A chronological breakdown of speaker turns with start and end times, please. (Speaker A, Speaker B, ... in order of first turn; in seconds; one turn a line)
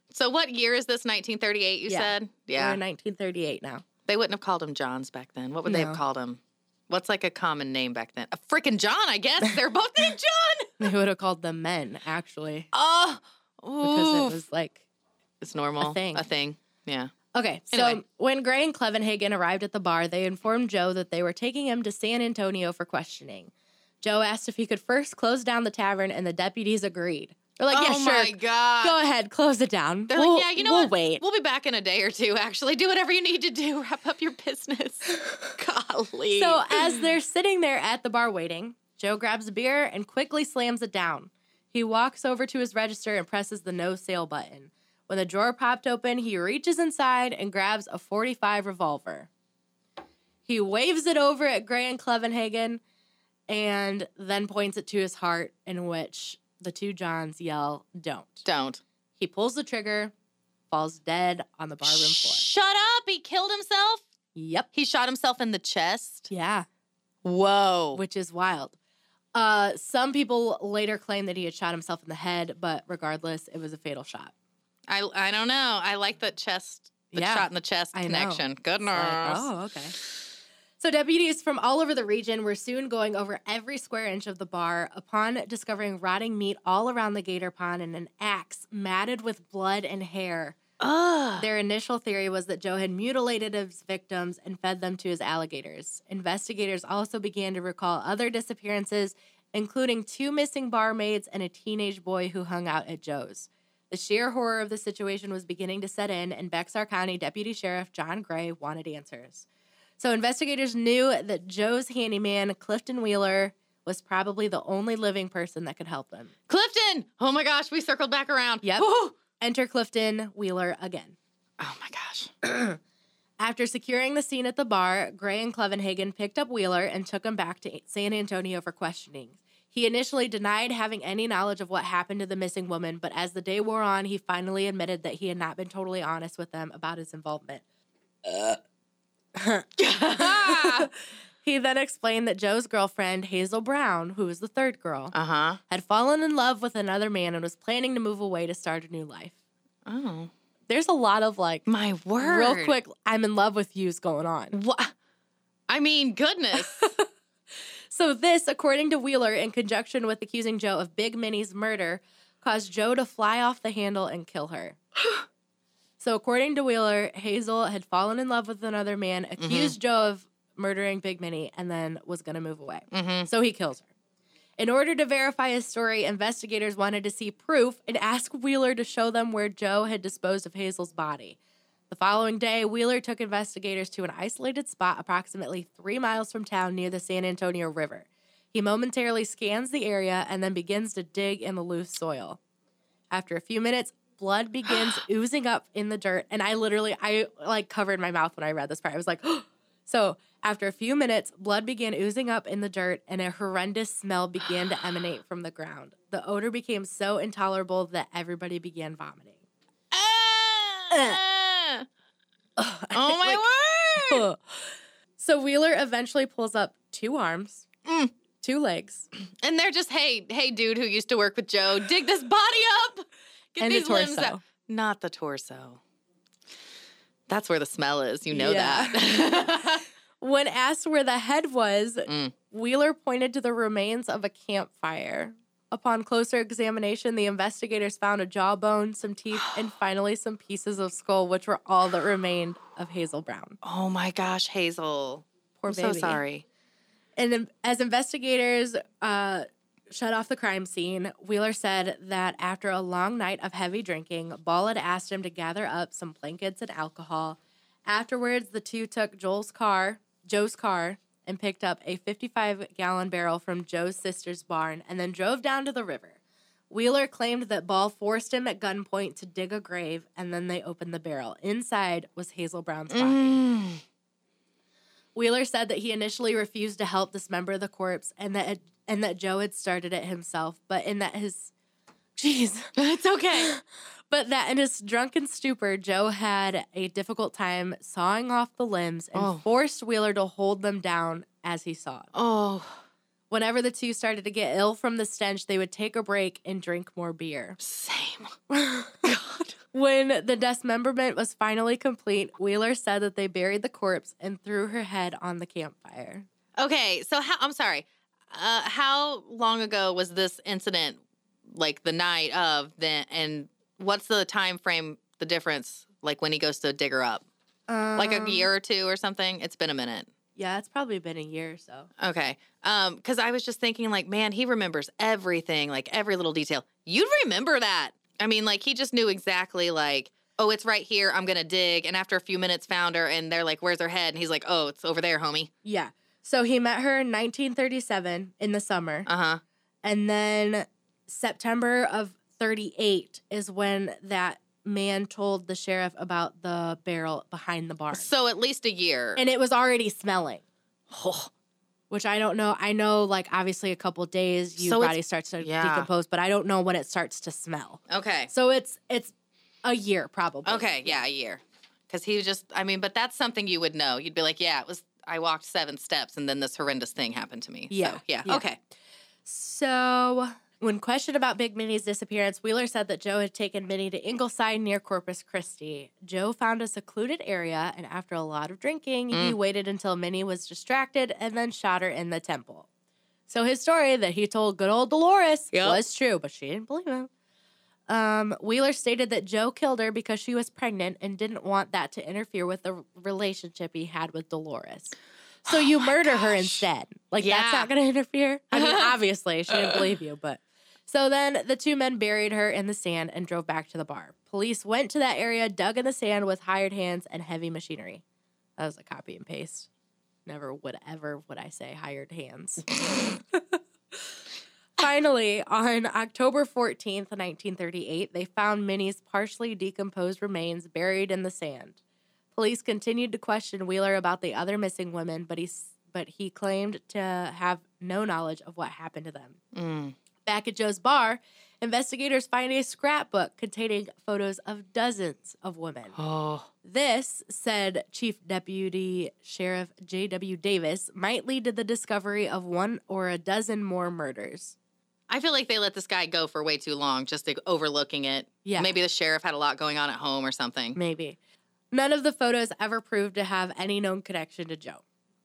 Speaker A: 0.1-2.8
Speaker B: 1.9-3.9
Speaker A: 4.1-10.8
Speaker B: 5.7-6.0
Speaker B: 10.8-12.7
Speaker A: 12.7-14.4
Speaker B: 13.8-14.8
Speaker A: 15.4-17.1
Speaker B: 15.8-16.3
Speaker B: 17.3-23.5
Speaker A: 17.7-18.0
Speaker B: 24.0-31.2
Speaker A: 27.7-29.0
Speaker A: 30.1-37.0
Speaker B: 36.3-49.3
Speaker B: 50.5-52.8
Speaker B: 53.5-58.4
Speaker A: 58.5-58.8
Speaker B: 59.2-60.1
Speaker B: 60.7-62.4
Speaker A: 61.8-64.0
Speaker B: 64.3-64.7
Speaker A: 64.7-66.3
Speaker B: 66.3-66.7
Speaker A: 67.2-68.0
Speaker B: 67.9-68.7
Speaker B: 69.3-74.3
Speaker A: 74.9-79.5
Speaker B: 77.1-80.0
Speaker B: 80.8-90.6
Speaker A: 90.8-91.5
Speaker B: 91.4-109.5
Speaker B: 110.0-116.3
Speaker A: 116.5-119.2
Speaker B: 118.6-121.2
Speaker A: 121.6-122.3
Speaker B: 122.4-122.8
Speaker B: 123.4-137.6
Speaker B: 138.2-138.6
Speaker B: 139.3-140.9
Speaker A: 139.8-140.9
Speaker B: 141.4-145.1
Speaker A: 145.1-145.6
Speaker B: 145.7-149.3
Speaker A: 149.9-150.3
Speaker B: 150.7-151.7
Speaker A: 151.7-152.8
Speaker B: 152.2-154.6
Speaker A: 154.5-154.9
Speaker A: 155.7-156.9
Speaker B: 156.6-157.0
Speaker B: 157.9-164.8
Speaker B: 166.0-173.9
Speaker A: 169.4-169.8
Speaker A: 172.9-173.3
Speaker B: 174.6-181.4
Speaker B: 181.9-192.4
Speaker B: 193.1-209.3
Speaker A: 209.9-211.9
Speaker B: 210.9-211.2
Speaker B: 212.6-213.4
Speaker A: 212.9-214.3
Speaker B: 214.0-214.7
Speaker B: 215.2-217.7
Speaker A: 217.8-218.1
Speaker B: 218.4-219.1
Speaker A: 219.4-225.8
Speaker B: 223.6-224.4
Speaker A: 227.3-229.8
Speaker B: 228.3-229.6
Speaker B: 230.2-243.6
Speaker A: 232.1-232.3
Speaker A: 243.6-246.4
Speaker B: 245.6-246.2
Speaker B: 247.2-266.2
Speaker B: 266.7-273.4
Speaker A: 272.9-273.8
Speaker B: 275.1-281.5
Speaker B: 282.2-282.7
Speaker A: 282.8-283.5
Speaker B: 283.3-292.1
Speaker A: 289.1-289.4
Speaker A: 292.1-292.8
Speaker B: 293.3-297.6
Speaker A: 297.6-298.4
Speaker B: 298.5-299.0
Speaker A: 299.0-299.6
Speaker B: 299.7-306.3
Speaker A: 306.6-317.2
Speaker B: 317.7-318.5
Speaker A: 318.0-320.1
Speaker B: 320.4-321.9
Speaker A: 322.0-335.5
Speaker B: 335.6-339.1
Speaker A: 339.1-339.4
Speaker B: 339.8-348.1
Speaker A: 347.9-349.2
Speaker B: 349.2-350.4
Speaker A: 350.9-351.3
Speaker B: 351.9-359.1
Speaker A: 354.6-355.9
Speaker A: 357.9-358.3
Speaker B: 359.6-361.0
Speaker A: 360.5-368.6
Speaker B: 367.7-368.5
Speaker B: 369.2-382.7
Speaker A: 379.1-379.4
Speaker B: 383.3-387.1
Speaker A: 385.5-385.8
Speaker B: 387.9-408.0
Speaker A: 395.5-396.6
Speaker A: 397.2-397.7
Speaker A: 398.5-398.9
Speaker A: 399.5-399.8
Speaker B: 408.6-409.7
Speaker B: 410.3-413.6
Speaker B: 414.8-421.8
Speaker B: 422.3-429.4
Speaker A: 429.5-429.9
Speaker B: 430.3-436.0
Speaker A: 436.0-436.5
Speaker B: 436.6-444.6
Speaker A: 445.1-450.8
Speaker B: 448.4-448.8
Speaker B: 450.8-451.2
Speaker B: 451.7-454.8